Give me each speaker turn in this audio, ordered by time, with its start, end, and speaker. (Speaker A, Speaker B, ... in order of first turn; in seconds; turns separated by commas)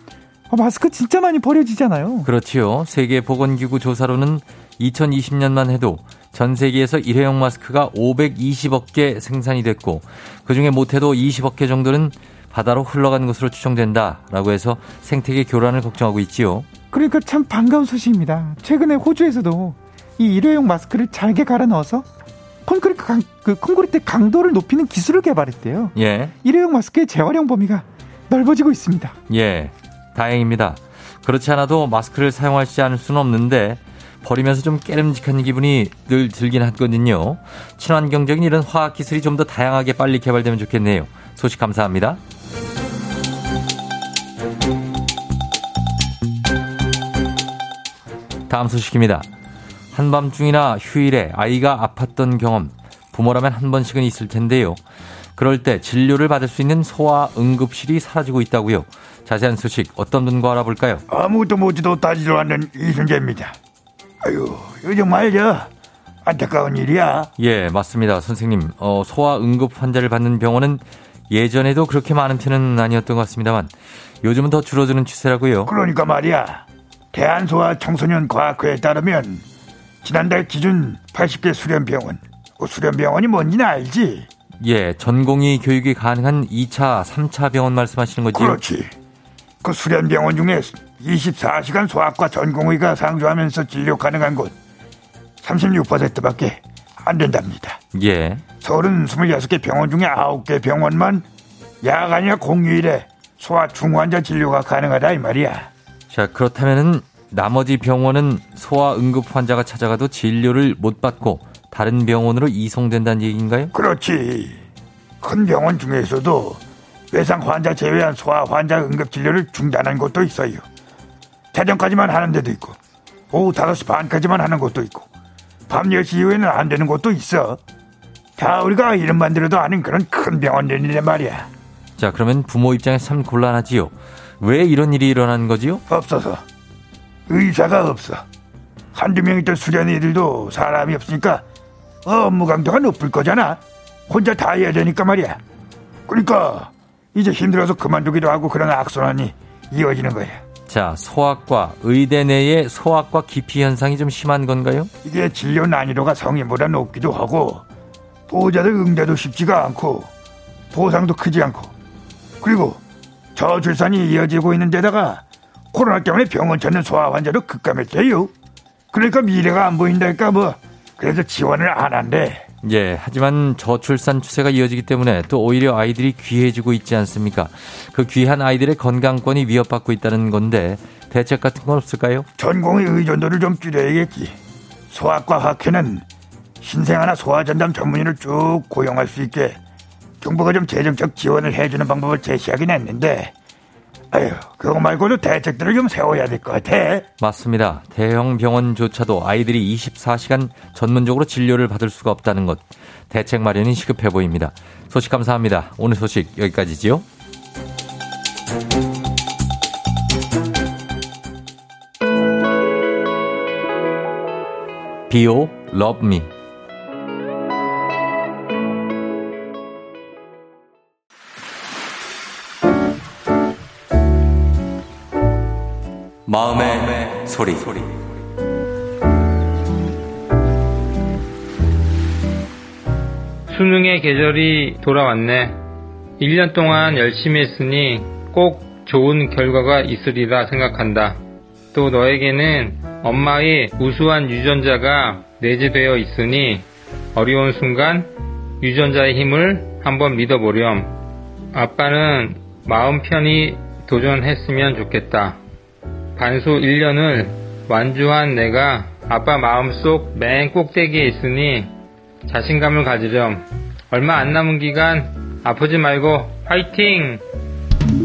Speaker A: 0.5-2.3, Speaker B: 2.2-16.7, Speaker A: 16.9-22.1, Speaker A: 22.6-29.1, Speaker B: 25.9-26.3, Speaker B: 29.3-42.2, Speaker B: 48.5-49.3, Speaker B: 49.9-54.8, Speaker B: 55.4-61.0, Speaker C: 61.1-63.5, Speaker C: 64.2-65.7, Speaker C: 66.2-67.3, Speaker B: 67.4-73.7, Speaker B: 74.2-75.7, Speaker C: 75.7-79.4, Speaker C: 80.0-84.3, Speaker B: 84.6-88.6, Speaker C: 88.3-88.9, Speaker C: 89.6-94.5, Speaker C: 95.4-97.8, Speaker B: 97.9-98.4, Speaker C: 98.6-101.2, Speaker C: 101.8-105.7, Speaker B: 106.1-113.7, Speaker C: 113.7-114.6, Speaker C: 115.2-120.6, Speaker C: 121.5-122.8, Speaker C: 123.3-125.1, Speaker C: 125.7-127.6, Speaker C: 128.4-131.5, Speaker B: 132.0-135.8, Speaker C: 135.9-136.4, Speaker C: 137.3-138.2, Speaker C: 138.9-141.4, Speaker C: 142.0-145.4, Speaker C: 146.1-150.4, Speaker B: 150.7-154.9, Speaker C: 155.0-157.6, Speaker C: 158.3-160.1, Speaker C: 160.7-161.7, Speaker C: 162.4-162.8, Speaker C: 163.3-168.3, Speaker C: 168.9-172.4, Speaker B: 172.6-182.3, Speaker C: 182.4-184.3, Speaker C: 184.9-186.0, Speaker C: 186.6-189.6, Speaker C: 190.2-193.3, Speaker C: 194.1-197.1, Speaker B: 197.2-207.0, Speaker B: 215.1-216.3, Speaker B: 226.3-227.9, Speaker D: 233.5-235.6, Speaker D: 236.2-241.2, Speaker D: 241.7-248.1, Speaker D: 248.6-250.9, Speaker D: 251.5-255.4, Speaker D: 256.1-261.7, Speaker D: 262.3-267.2